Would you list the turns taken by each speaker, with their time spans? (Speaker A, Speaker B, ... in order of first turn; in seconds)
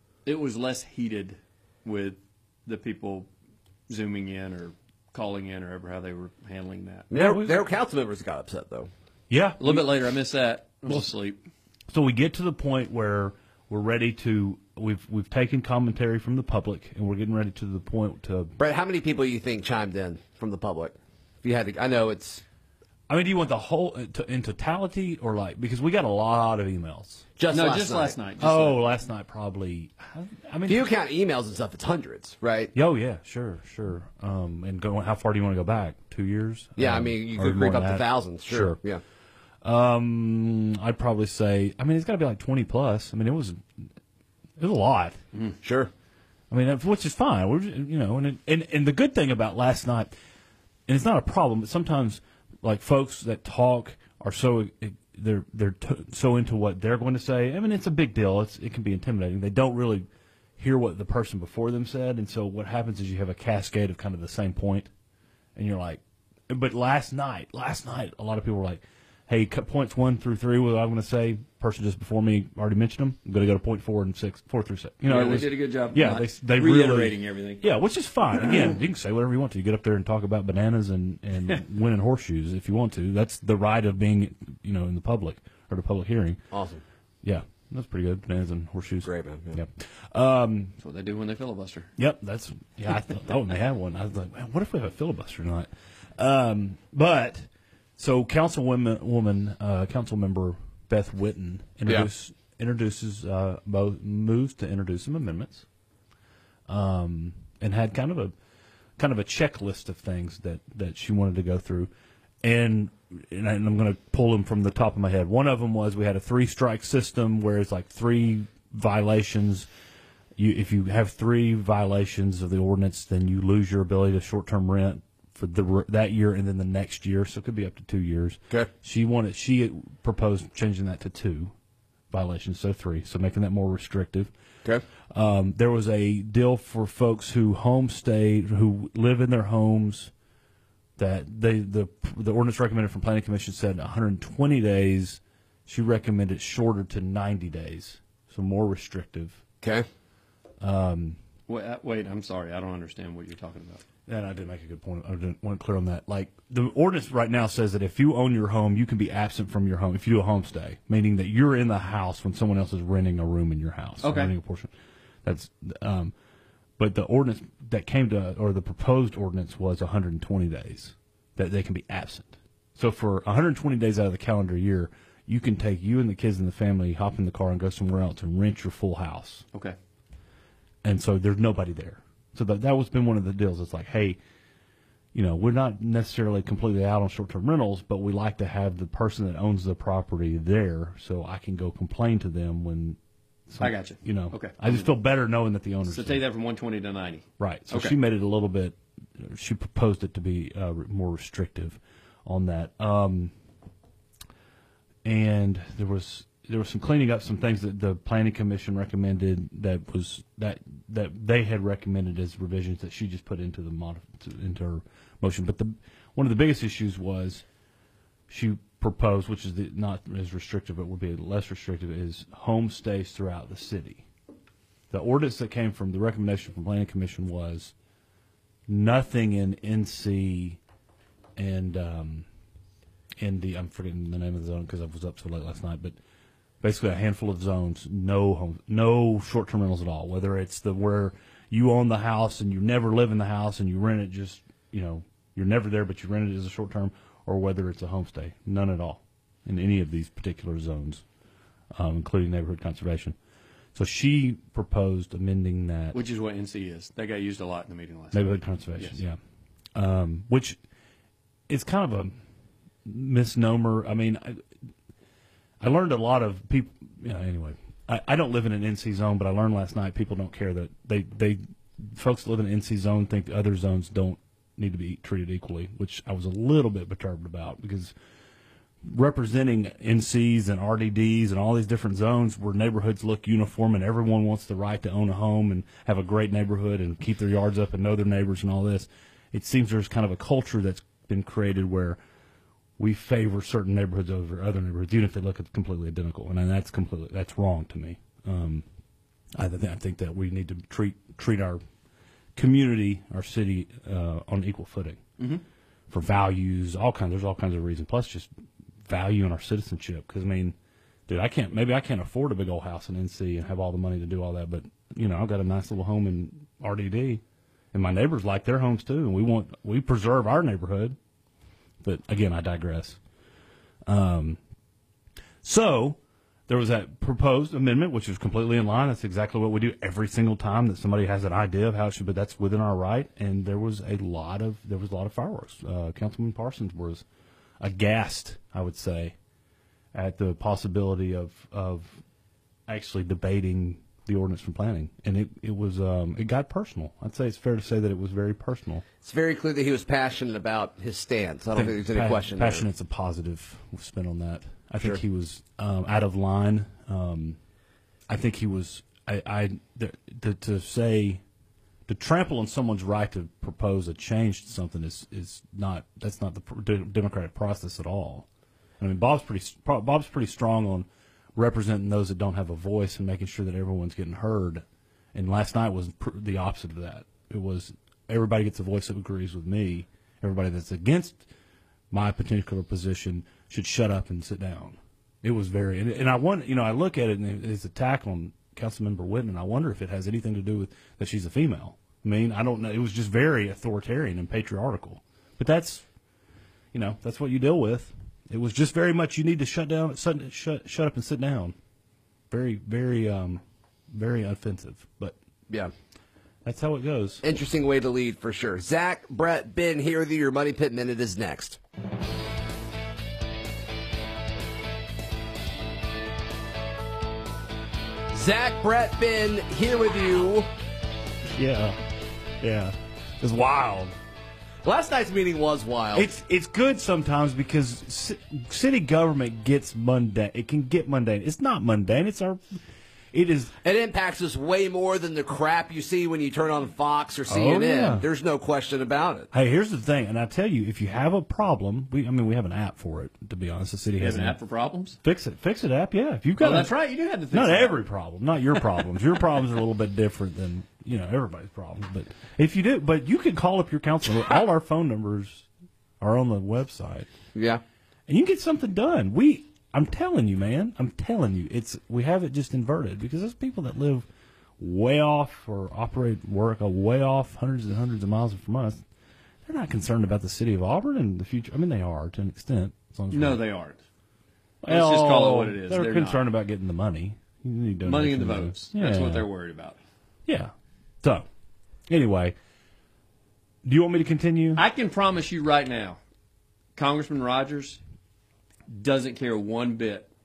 Speaker A: 0.2-3.3, 3.9-7.1, 9.6-11.4, 27.5-28.9, 75.0-77.7, 78.3-78.8, 90.8-91.9, 151.5-153.8, 164.0-164.3, 193.6-194.9, 195.8-198.0, 255.9-259.0, 444.0-445.0, 446.4-447.9, 473.1-473.8, 474.7-476.2, 477.8-479.8, 484.5-486.0, 486.8-487.8, 488.7-490.1
Speaker B: 7.1-8.9, 18.6-22.4, 27.4-28.1, 30.7-32.7, 36.8-39.0, 45.6-45.9, 86.5-86.8, 89.0-89.6, 349.0-352.6, 407.2-411.6, 418.1-420.5, 424.6-426.1, 433.6-439.3, 457.3-457.6
Speaker C: 7.1-7.7, 9.3-10.0, 11.9-18.6, 23.1-27.2, 28.4-30.9, 32.7-38.8, 39.6-43.6, 44.6-45.2, 46.5-50.1, 50.9-60.0, 60.6-64.9, 65.5-86.4, 87.2-90.7, 92.0-105.6, 106.7-108.3, 109.0-111.9, 112.4-119.7, 120.4-131.5, 132.1-134.3, 135.1-140.1, 141.0-149.4, 150.6-151.2, 154.1-164.7, 165.2-166.1, 166.8-179.4, 180.8-184.2, 185.1-193.0, 193.5-196.2, 197.4-203.3, 205.0-217.4, 218.3-224.0, 224.9-227.7, 228.7-230.6, 231.4-232.2, 233.2-235.9, 236.6-251.0, 251.8-253.2, 253.7-256.0, 258.1-259.1, 259.7-260.6, 261.5-262.1, 262.8-264.4, 265.6-277.9, 278.9-292.0, 292.8-298.6, 299.4-301.6, 302.4-305.0, 305.9-308.3, 308.9-310.5, 311.1-317.2, 317.7-320.9, 321.8-323.0, 323.9-324.4, 325.4-337.0, 337.6-339.1, 339.9-342.0, 342.7-348.8, 351.5-357.4, 358.1-361.2, 361.9-368.2, 368.8-374.6, 375.1-381.2, 381.9-395.8, 396.7-401.5, 402.3-403.4, 403.9-405.1, 406.4-407.2, 421.4-421.8, 422.4-423.9, 425.9-432.4, 433.1-433.5, 437.3-438.1, 439.3-444.4, 445.0-446.7, 447.3-455.5, 456.0-457.1, 458.1-464.0, 464.6-468.8, 469.4-473.4, 474.6-479.3, 481.9-482.3, 483.6-484.6